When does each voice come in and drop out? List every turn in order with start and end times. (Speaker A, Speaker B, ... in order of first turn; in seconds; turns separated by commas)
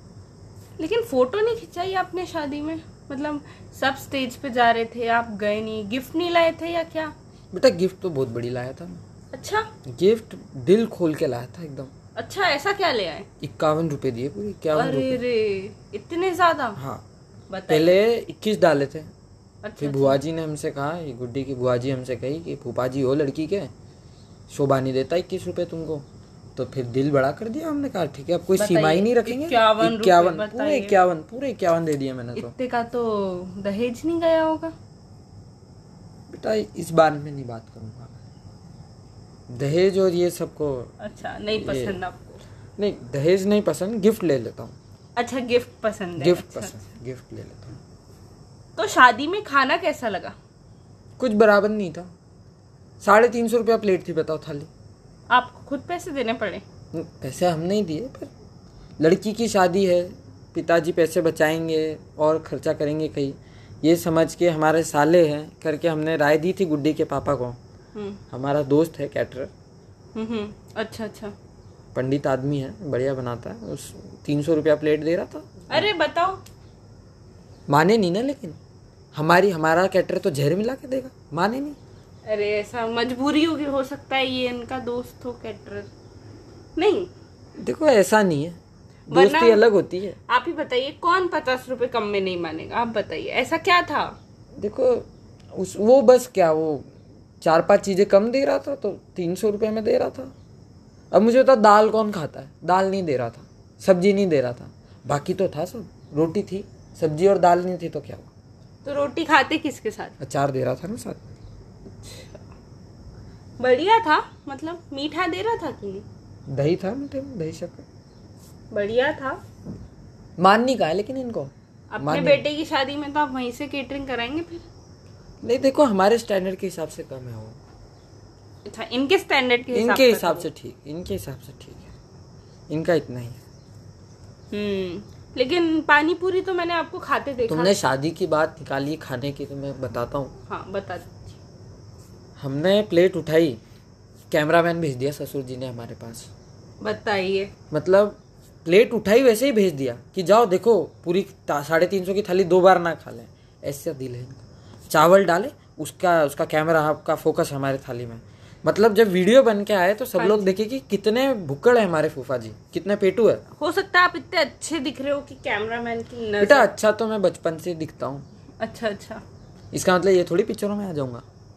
Speaker A: 0.8-7.1, Speaker B: 7.5-9.0, Speaker A: 9.3-9.7, Speaker B: 9.9-11.9, Speaker A: 12.2-13.2, Speaker B: 13.4-15.2, Speaker A: 14.7-16.8, Speaker B: 16.8-17.0, Speaker A: 17.5-17.9, Speaker B: 17.7-19.1, Speaker A: 19.6-20.2, Speaker B: 19.8-23.7, Speaker B: 24.5-26.0, Speaker B: 26.6-32.5, Speaker A: 28.6-30.9, Speaker A: 32.4-34.7, Speaker B: 36.3-38.2, Speaker B: 39.5-40.9, Speaker A: 41.0-42.4, Speaker B: 41.5-42.0, Speaker B: 42.8-44.8, Speaker A: 45.1-46.7, Speaker B: 46.2-47.8, Speaker A: 48.8-50.3, Speaker B: 51.2-52.1, Speaker B: 53.0-54.7, Speaker A: 55.3-56.6, Speaker B: 56.9-58.3, Speaker B: 59.0-67.6, Speaker A: 67.9-68.2, Speaker B: 68.3-69.5, Speaker A: 70.1-71.3, Speaker B: 71.9-75.9, Speaker A: 75.7-76.4, Speaker B: 77.7-78.6, Speaker B: 79.1-81.8, Speaker A: 82.2-85.9, Speaker A: 86.8-87.1, Speaker B: 87.6-88.6, Speaker B: 89.1-90.2, Speaker A: 89.1-89.6, Speaker A: 90.3-94.1, Speaker B: 94.6-96.9, Speaker B: 97.4-100.3, Speaker B: 101.1-108.3, Speaker A: 108.8-110.1, Speaker B: 110.2-111.2, Speaker A: 112.0-112.4, Speaker A: 113.6-116.0, Speaker B: 116.5-117.8, Speaker A: 118.7-119.4, Speaker B: 120.4-122.4, Speaker A: 121.9-124.6, Speaker B: 125.4-127.6, Speaker A: 128.6-130.5, Speaker B: 129.7-131.9, Speaker B: 132.7-133.4, Speaker A: 134.5-137.8, Speaker B: 137.5-140.3, Speaker A: 140.5-141.3, Speaker B: 142.4-143.6, Speaker B: 144.3-146.3, Speaker A: 146.8-147.5, Speaker B: 147.7-163.4, Speaker A: 160.2-160.5, Speaker A: 163.6-166.7, Speaker B: 166.4-168.2, Speaker A: 168.6-169.2, Speaker B: 169.7-171.2